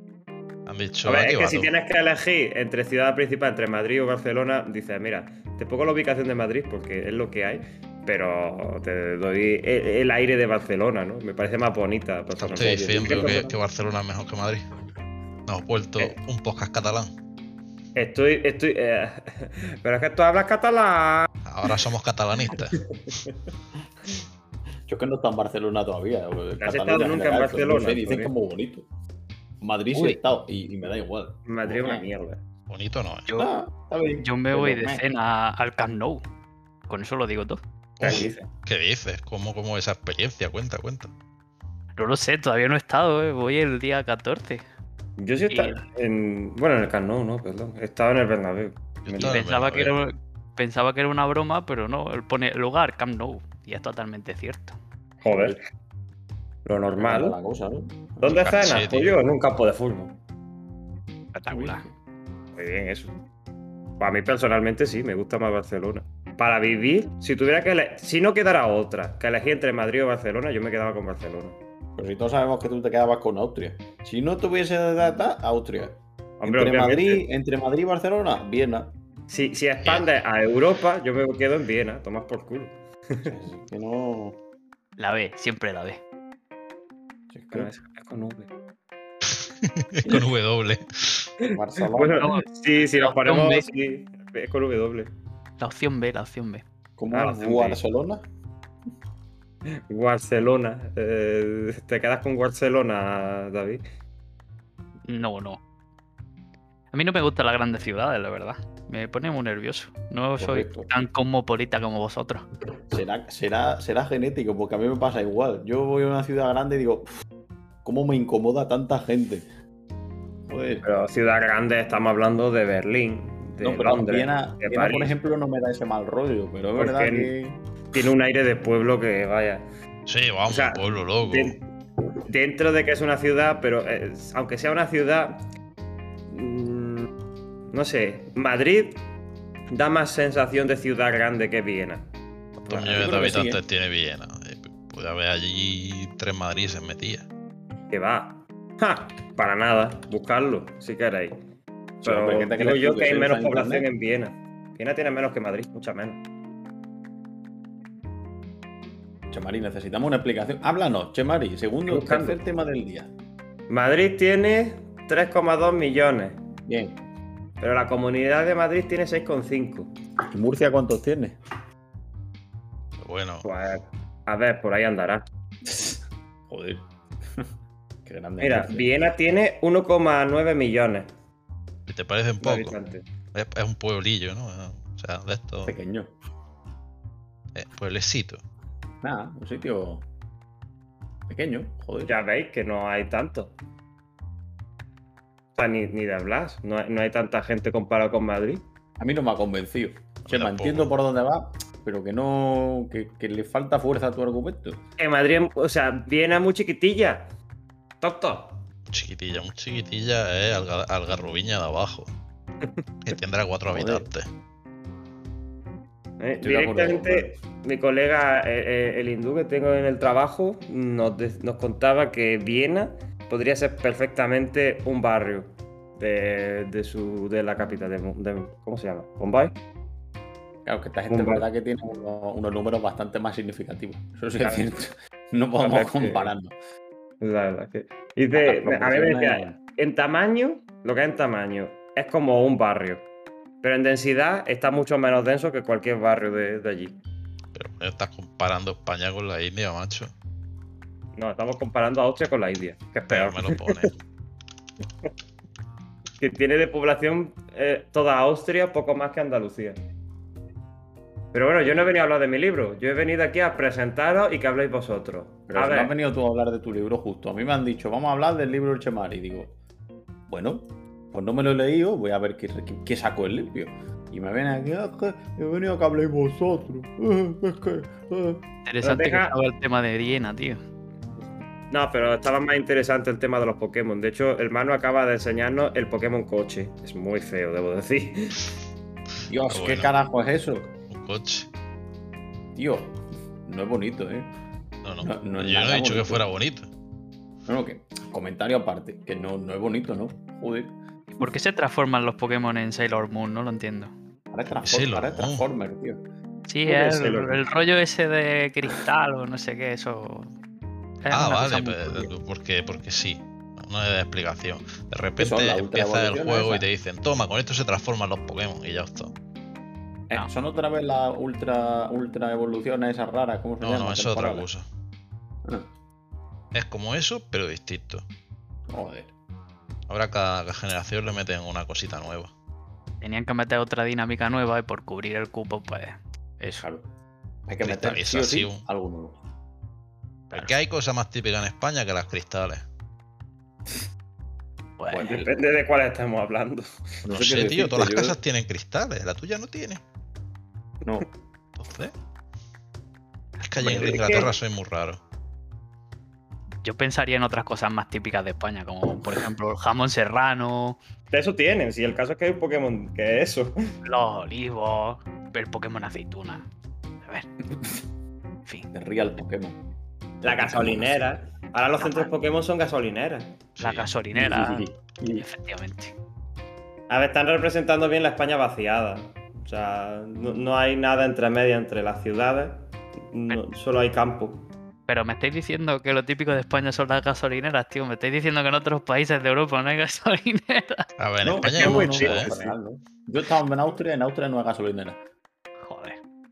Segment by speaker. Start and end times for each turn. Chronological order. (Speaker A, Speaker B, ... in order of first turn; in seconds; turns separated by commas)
Speaker A: 0.7-1.7, Speaker B: 1.0-13.6, Speaker A: 12.4-14.7, Speaker C: 12.5-13.5, Speaker A: 15.5-17.1, Speaker B: 17.9-21.3, Speaker A: 21.4-22.8, Speaker B: 22.6-23.1, Speaker C: 24.9-28.8, Speaker B: 26.6-28.3, Speaker C: 29.6-32.0, Speaker B: 31.4-32.4, Speaker A: 32.7-33.3, Speaker C: 33.3-35.0, Speaker D: 34.2-36.2, Speaker D: 36.9-37.6, Speaker A: 38.0-41.1, Speaker B: 38.0-38.4, Speaker C: 38.1-38.3, Speaker D: 42.0-44.6, Speaker B: 45.2-49.4, Speaker D: 45.5-45.8, Speaker A: 49.0-50.0, Speaker D: 49.2-54.8, Speaker C: 55.2-55.6, Speaker B: 55.2-55.6, Speaker B: 56.6-57.4, Speaker C: 57.0-58.6, Speaker B: 58.2-60.2, Speaker A: 58.2-59.2, Speaker D: 61.3-61.8, Speaker C: 61.5-61.9, Speaker B: 62.5-63.1, Speaker B: 64.0-71.6, Speaker C: 72.0-78.9, Speaker B: 76.4-77.2, Speaker B: 79.3-83.3, Speaker A: 79.8-80.1, Speaker C: 83.2-84.4, Speaker D: 85.0-86.0, Speaker C: 87.3-87.7, Speaker B: 87.5-88.5, Speaker A: 89.4-91.3, Speaker B: 91.4-95.1, Speaker C: 91.5-92.3, Speaker D: 92.2-93.7, Speaker D: 95.6-96.6, Speaker C: 97.0-98.2, Speaker B: 97.1-97.8, Speaker B: 99.9-103.8, Speaker D: 105.1-105.6, Speaker D: 106.9-112.5, Speaker C: 110.4-110.9, Speaker C: 112.9-117.1, Speaker C: 117.8-119.5, Speaker C: 120.5-120.8, Speaker B: 120.8-125.1, Speaker C: 123.6-127.6, Speaker B: 126.8-127.3, Speaker B: 127.9-129.6, Speaker A: 130.1-131.6, Speaker B: 130.5-131.6, Speaker B: 132.2-135.4, Speaker B: 136.3-137.1, Speaker B: 137.7-139.0, Speaker B: 139.7-142.0, Speaker B: 142.7-143.1, Speaker A: 142.7-147.3, Speaker C: 142.8-143.6, Speaker B: 147.9-151.4, Speaker C: 152.0-153.9, Speaker B: 152.0-156.2, Speaker C: 159.3-163.1, Speaker B: 161.9-162.4, Speaker B: 163.7-166.4, Speaker C: 166.7-167.0, Speaker B: 167.6-169.9, Speaker C: 170.3-171.4, Speaker A: 173.0-173.5, Speaker B: 173.4-175.2, Speaker C: 175.6-177.5, Speaker C: 178.0-178.9, Speaker B: 178.4-181.1, Speaker A: 181.9-182.7, Speaker B: 182.4-183.0, Speaker A: 183.3-185.7, Speaker C: 185.6-186.1, Speaker A: 187.5-188.4, Speaker C: 189.0-190.1, Speaker C: 191.3-192.2, Speaker B: 192.0-193.5, Speaker B: 195.5-198.6, Speaker C: 199.0-204.8, Speaker A: 200.3-200.9, Speaker B: 205.0-207.3, Speaker B: 208.0-208.6, Speaker A: 208.9-212.1, Speaker A: 213.0-214.3, Speaker C: 213.7-214.1, Speaker B: 216.2-229.6, Speaker C: 216.4-217.4, Speaker C: 230.6-236.5, Speaker B: 231.1-231.4, Speaker B: 234.4-234.7, Speaker B: 235.6-236.3, Speaker B: 237.2-243.1, Speaker C: 238.3-239.6, Speaker B: 243.6-247.0, Speaker A: 247.5-250.1, Speaker B: 251.1-253.9, Speaker A: 253.1-253.9, Speaker B: 256.2-259.8, Speaker B: 261.3-265.9, Speaker C: 265.5-269.6, Speaker C: 270.3-278.4, Speaker D: 278.6-280.6, Speaker B: 278.8-279.3, Speaker B: 281.7-288.5, Speaker C: 289.3-290.7, Speaker A: 289.5-289.9, Speaker A: 290.9-291.5, Speaker C: 292.6-294.3, Speaker A: 294.8-296.7, Speaker C: 295.0-296.2, Speaker C: 297.4-300.7, Speaker D: 301.1-303.9, Speaker C: 304.3-306.0, Speaker A: 304.6-305.4, Speaker D: 306.5-310.3, Speaker B: 306.6-307.4, Speaker D: 311.0-312.1, Speaker A: 311.1-319.1, Speaker C: 315.2-316.6, Speaker C: 320.1-324.5, Speaker A: 323.6-324.6, Speaker A: 326.5-328.0, Speaker C: 328.7-329.1, Speaker A: 329.9-332.3, Speaker D: 333.0-336.6, Speaker C: 336.6-336.9, Speaker C: 337.5-339.2, Speaker A: 337.6-338.6, Speaker A: 340.3-342.6, Speaker D: 344.8-345.1, Speaker C: 344.9-345.5, Speaker B: 345.0-347.0, Speaker C: 347.0-348.2, Speaker A: 347.1-349.8, Speaker A: 351.6-351.9, Speaker A: 353.4-355.0, Speaker B: 353.6-354.3, Speaker D: 356.6-360.8, Speaker B: 361.1-363.6, Speaker D: 363.8-366.5, Speaker D: 367.0-367.3, Speaker C: 368.7-369.6, Speaker C: 370.2-371.2, Speaker B: 370.2-373.4, Speaker D: 371.8-372.1, Speaker A: 373.6-373.9, Speaker D: 373.6-374.7, Speaker C: 374.1-375.3, Speaker D: 375.2-375.9, Speaker B: 376.9-384.4, Speaker D: 384.9-390.9, Speaker A: 391.0-392.3, Speaker C: 391.2-395.0, Speaker B: 391.5-392.5, Speaker D: 395.6-396.0